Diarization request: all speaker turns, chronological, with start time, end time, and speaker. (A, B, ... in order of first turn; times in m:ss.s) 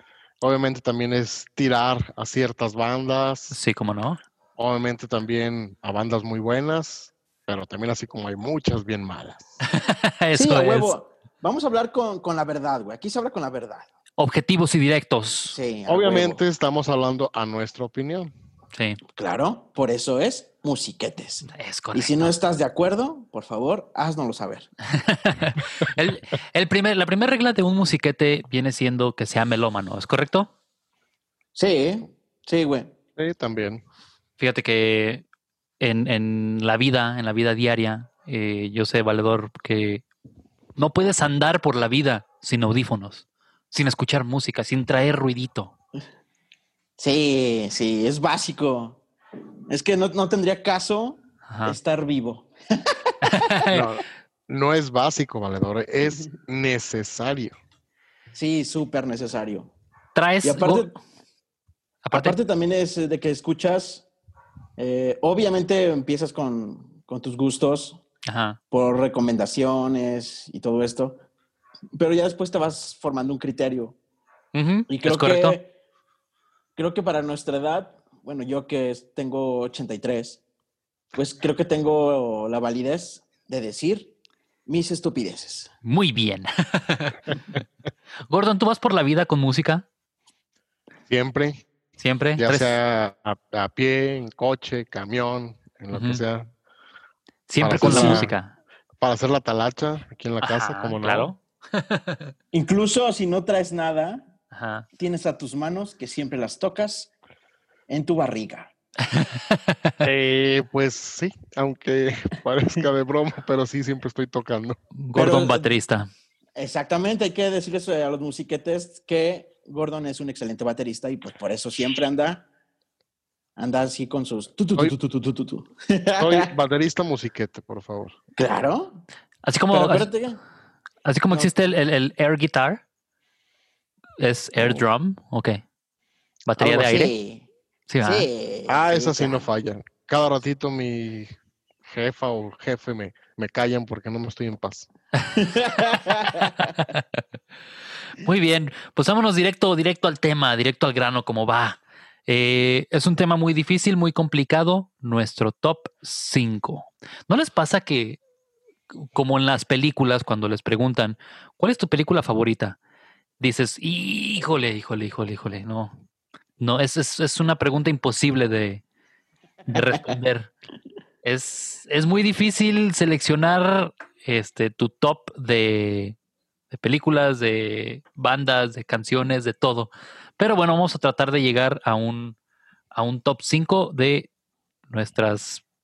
0:00.4-0:03.6 A
0:03.5-0:04.2 B
0:04.6-0:09.6 A
0:09.7-0:10.9 B
0:10.3-0:13.9 C
0:14.2-0:15.6 B
0:15.5-0:16.4 C
0:15.9-0:18.3 A
0:18.7-0:19.0 B
0:19.2-0:24.7 C
0:21.5-0:22.3 B
0:25.0-0:30.5 B
0:31.5-0:32.9 C
0:33.2-0:33.8 A
0:34.4-0:35.2 B
0:35.8-0:40.0 B
0:40.8-0:45.7 B
0:47.0-0:49.0 C
0:49.7-0:53.5 C
0:51.5-0:51.8 B
0:53.3-0:53.8 B
0:53.7-0:57.5 A
0:58.3-0:59.7 C
1:00.1-1:00.9 B
1:00.4-1:00.9 C
1:02.0-1:02.4 B
1:02.1-1:04.1 C
1:04.8-1:08.0 C
1:08.2-1:08.6 B
1:08.7-1:11.2 C
1:12.0-1:14.0 C
1:14.5-1:15.6 B
1:14.9-1:15.7 C
1:16.8-1:20.4 C
1:21.1-1:24.1 C
1:24.6-1:25.7 C
1:25.8-1:27.2 B
1:28.3-1:29.8 B
1:31.1-1:31.6 A
1:32.0-1:32.8 B
1:32.4-1:36.5 A
1:35.9-1:36.2 B
1:37.5-1:38.5 B
1:37.6-1:38.3 A
1:37.8-1:38.3 C
1:39.0-1:41.3 A
1:40.4-1:42.3 B
1:42.5-1:44.3 C
1:44.5-1:44.9 B
1:45.0-1:47.1 C
1:47.9-1:48.7 C
1:49.1-1:49.9 B
1:50.0-1:54.8 A
1:55.0-1:56.1 B
1:55.1-1:55.7 C
1:56.6-2:02.4 C
2:03.6-2:06.5 C
2:06.2-2:08.2 A
2:08.4-2:09.0 C
2:09.4-2:10.1 B
2:09.7-2:10.4 C
2:11.0-2:12.8 B
2:14.2-2:15.6 B
2:16.5-2:17.1 B
2:16.6-2:17.4 C
2:17.9-2:18.3 B
2:18.0-2:19.4 C
2:18.7-2:21.3 A
2:21.8-2:24.9 A
2:25.4-2:26.7 C
2:28.2-2:38.2 B
2:39.1-2:42.8 B
2:43.4-2:46.0 B
2:46.6-2:48.8 B
2:49.7-2:50.5 B
2:51.2-2:56.2 B
2:56.7-3:02.4 B
3:02.9-3:04.3 B
3:04.9-3:05.6 B